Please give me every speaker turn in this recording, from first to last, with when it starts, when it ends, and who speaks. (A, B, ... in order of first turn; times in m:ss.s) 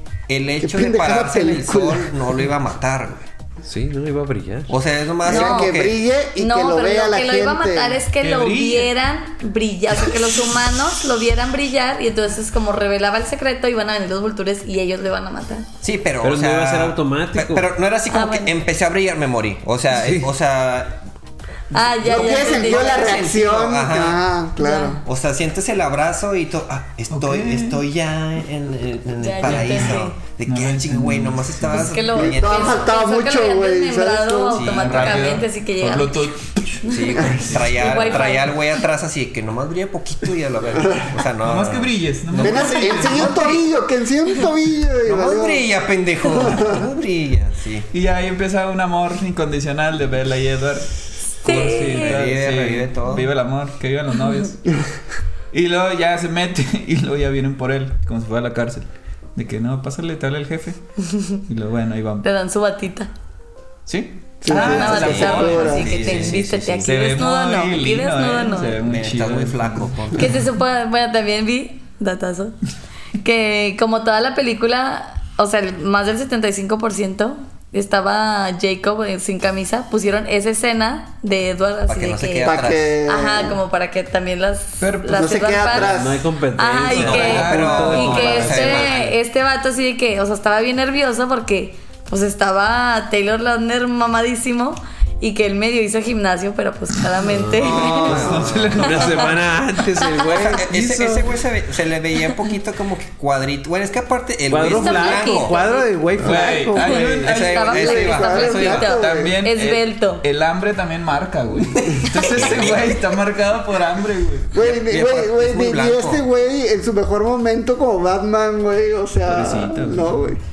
0:00.3-0:03.2 A
0:00.6-0:02.1 B
0:03.6-0:04.7 C
0:04.7-0:06.0 A
0:05.2-0:08.0 B
0:05.2-0:05.8 D
0:06.4-0:15.7 D
0:08.2-0:08.9 E
0:15.8-0:21.0 A
0:16.2-0:17.7 C
0:18.1-0:18.6 D
0:19.9-0:20.3 C
0:21.7-0:23.5 D
0:22.0-0:25.0 B
0:22.0-0:24.2 A
0:24.6-0:25.0 D
0:25.0-0:32.9 A
0:27.1-0:27.8 E
0:29.2-0:30.2 D
0:29.4-0:32.1 E
0:31.7-0:38.5 D
0:32.1-0:34.7 B
0:34.5-0:35.4 A
0:34.6-0:38.1 E
0:36.9-0:42.5 A
0:41.4-0:43.6 E
0:42.3-0:45.7 B
0:45.0-0:47.9 A
0:46.3-0:46.8 B
0:47.9-0:54.6 E
0:51.4-0:52.2 D
0:51.9-0:53.3 A
0:55.5-1:00.8 E
1:01.1-1:01.4 D
1:01.3-1:02.3 E
1:02.2-1:03.1 D
1:03.9-1:06.3 E
1:04.4-1:06.2 B
1:04.5-1:08.7 D
1:04.5-1:07.0 A
1:06.8-1:10.2 E
1:08.8-1:10.4 A
1:10.2-1:12.6 D
1:13.2-1:26.0 D
1:21.9-1:23.0 A
1:22.4-1:23.6 B
1:24.8-1:25.5 E
1:25.1-1:26.3 B
1:25.7-1:28.9 C
1:26.5-1:39.2 D
1:26.9-1:28.5 E
1:27.0-1:29.2 A
1:37.3-1:41.4 C
1:37.6-1:38.9 A
1:37.8-1:39.4 E
1:40.0-1:40.3 D
1:40.3-1:45.6 A
1:44.5-1:47.1 C
1:44.7-1:50.2 D
1:46.2-1:54.6 E
1:46.2-1:46.5 B
1:47.1-1:48.8 A
1:47.6-1:49.4 B
1:51.8-1:53.0 A
1:54.5-2:00.4 B
1:54.6-1:56.2 A
1:59.2-2:00.2 E